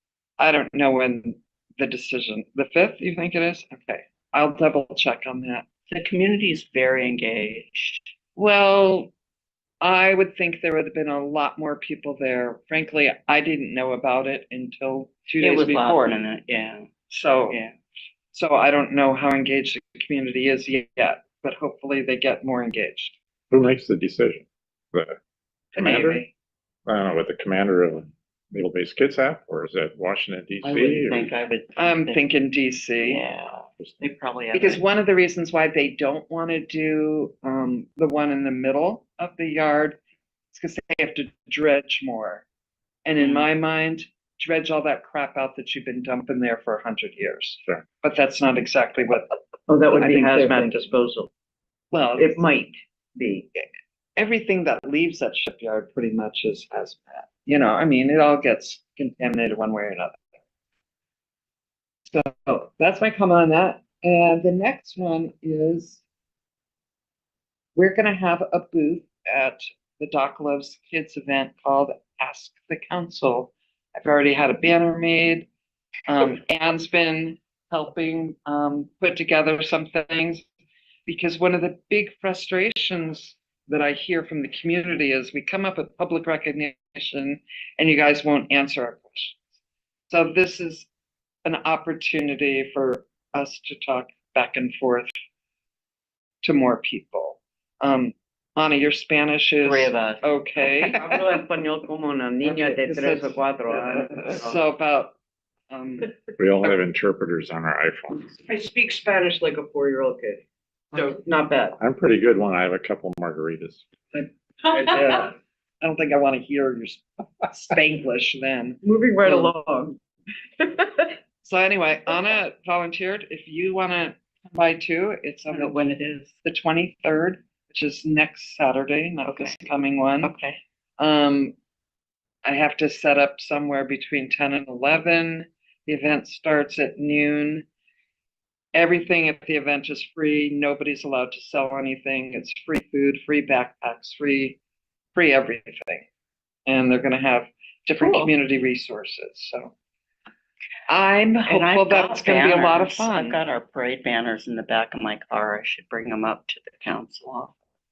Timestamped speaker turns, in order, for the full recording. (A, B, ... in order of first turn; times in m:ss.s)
0:00.4-0:05.6 A
0:05.9-0:08.1 B
0:08.4-0:09.1 A
0:09.8-0:16.1 A
0:15.4-0:16.9 B
0:17.1-0:17.6 A
0:17.5-0:17.7 B
0:18.3-0:23.2 A
0:23.5-0:25.2 C
0:25.7-0:26.3 A
0:25.8-0:26.2 C
0:26.9-0:31.3 C
0:30.6-0:32.2 B
0:31.8-0:33.2 A
0:33.0-0:34.8 B
0:34.5-0:40.0 A
0:40.5-0:42.4 A
0:43.0-0:49.3 A
0:43.2-0:43.4 B
0:49.7-0:51.3 D
0:49.9-0:50.8 A
0:51.9-0:52.4 A
0:52.2-0:53.5 D
0:54.2-1:00.2 A
1:02.1-1:06.0 A
1:07.7-1:15.5 A
1:16.1-1:20.4 A
1:21.0-1:29.4 A
1:30.1-1:30.9 A
1:31.4-1:35.1 A
1:36.4-1:41.0 A
1:39.6-1:41.2 B
1:40.9-1:44.6 D
1:42.4-1:45.1 A
1:45.7-1:46.8 A
1:46.4-1:48.3 C
1:48.4-1:50.4 D
1:50.9-1:51.8 D
1:51.8-1:53.8 C
1:54.1-1:59.5 A
1:58.8-2:00.0 D
2:00.6-2:01.1 D
2:01.4-2:05.8 A
2:05.5-2:06.3 B
2:06.4-2:10.3 A
2:09.3-2:09.6 B
2:10.2-2:10.6 B
2:11.0-2:11.5 A
2:12.4-2:17.6 A
2:18.7-2:24.6 A
2:25.1-2:26.0 A
2:26.6-2:29.7 A
2:28.0-2:28.3 B
2:30.9-2:33.4 A
2:31.4-2:37.5 B